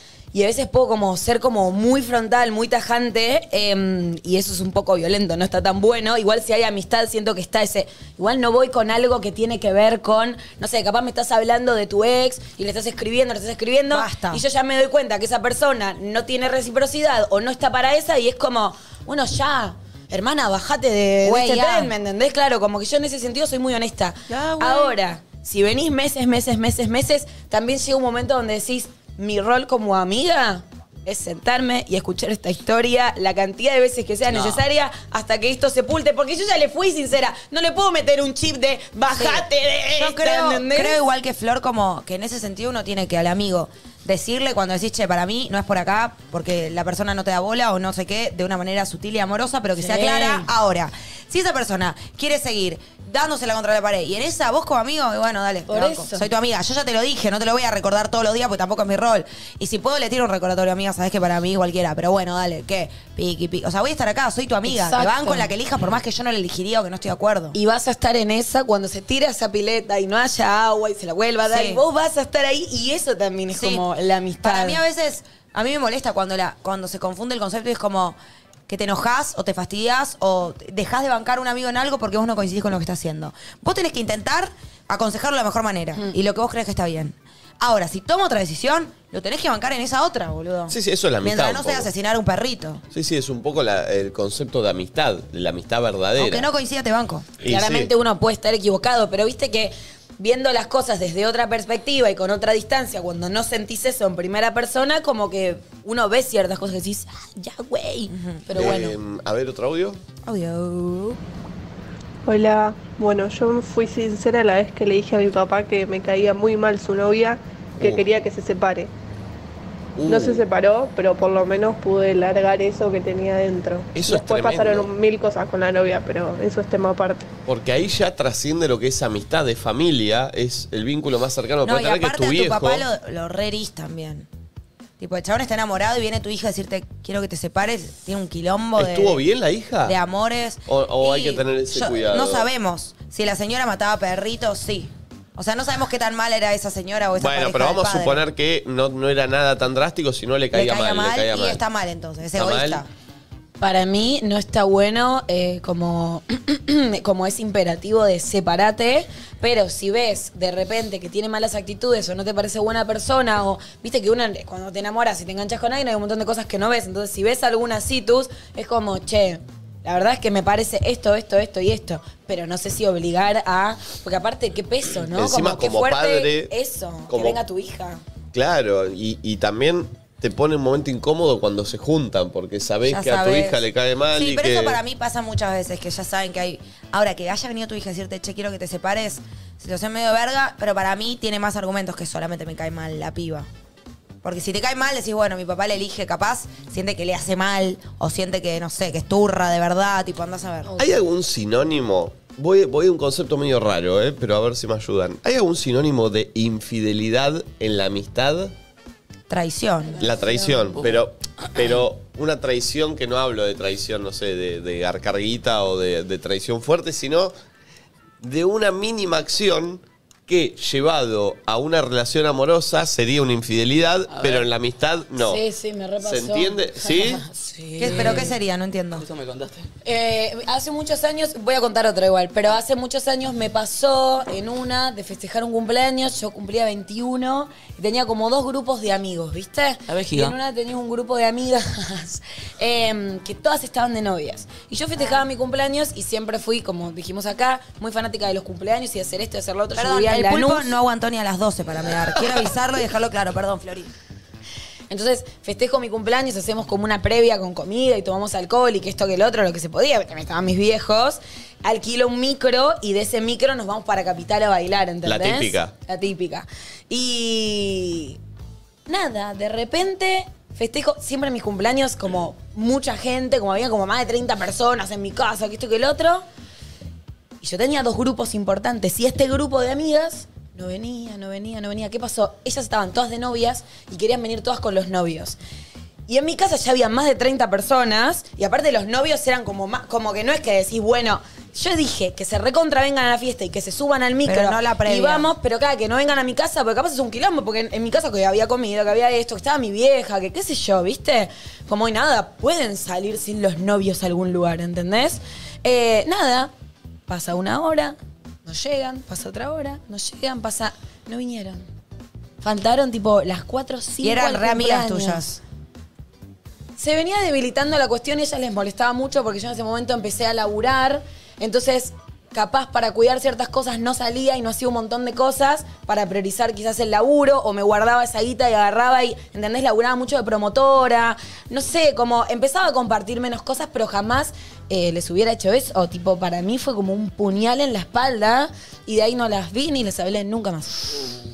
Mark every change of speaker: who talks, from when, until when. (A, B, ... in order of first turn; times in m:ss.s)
0:00.3-0:41.0 A
0:13.9-0:14.4 B
0:21.2-0:21.9 B
0:24.3-0:24.9 C
0:34.3-0:34.6 C
0:39.2-0:39.4 B
0:40.0-1:07.6 B
0:49.8-0:50.5 A
0:55.7-0:56.3 A
1:04.7-1:05.5 A
1:07.5-1:14.8 A
1:11.5-1:11.8 B
1:13.5-1:13.8 B
1:14.4-1:32.8 B
1:30.7-1:31.9 D
1:32.9-1:36.5 D
1:36.1-1:37.3 B
1:37.4-1:37.9 D
1:37.4-1:49.0 A
1:48.1-1:48.4 B
1:48.5-1:50.0 D
1:50.2-1:51.2 B
1:52.2-1:58.9 E
1:57.8-1:58.1 D
2:00.0-2:00.4 D
2:00.1-2:07.3 E
2:03.9-2:04.9 D
2:07.4-2:12.8 D
2:11.6-2:14.3 B
2:15.0-2:19.2 B
2:18.8-2:20.0 D
2:19.8-2:28.2 B
2:20.7-2:22.5 D
2:27.2-2:31.6 D
2:30.5-2:32.9 B
2:32.3-2:32.8 D
2:33.6-2:58.0 A
2:55.1-2:56.5 D
2:57.1-2:57.4 D
2:58.3-3:04.8 D
3:02.8-3:13.5 B
3:14.2-3:20.7 B
3:20.6-3:20.9 A
3:20.8-3:28.5 D
3:29.3-3:30.2 B
3:30.0-3:37.3 D
3:30.1-3:30.7 A
3:38.2-3:45.4 D
3:44.1-3:44.4 C
3:45.2-3:48.3 A
3:46.0-3:47.2 D
3:47.6-3:48.3 C
3:47.8-3:49.0 B
3:48.9-3:49.7 C
3:49.8-4:10.7 A
3:59.9-4:00.3 C
4:09.8-4:13.9 B
4:14.9-4:28.2 A
4:25.0-4:25.7 D
4:28.9-4:36.2 A
4:37.4-4:45.4 A
4:46.1-5:06.5 A
4:54.2-4:55.3 B
5:07.1-5:11.6 A
5:12.4-5:15.2 A
5:14.0-5:15.4 B
5:16.8-5:41.1 A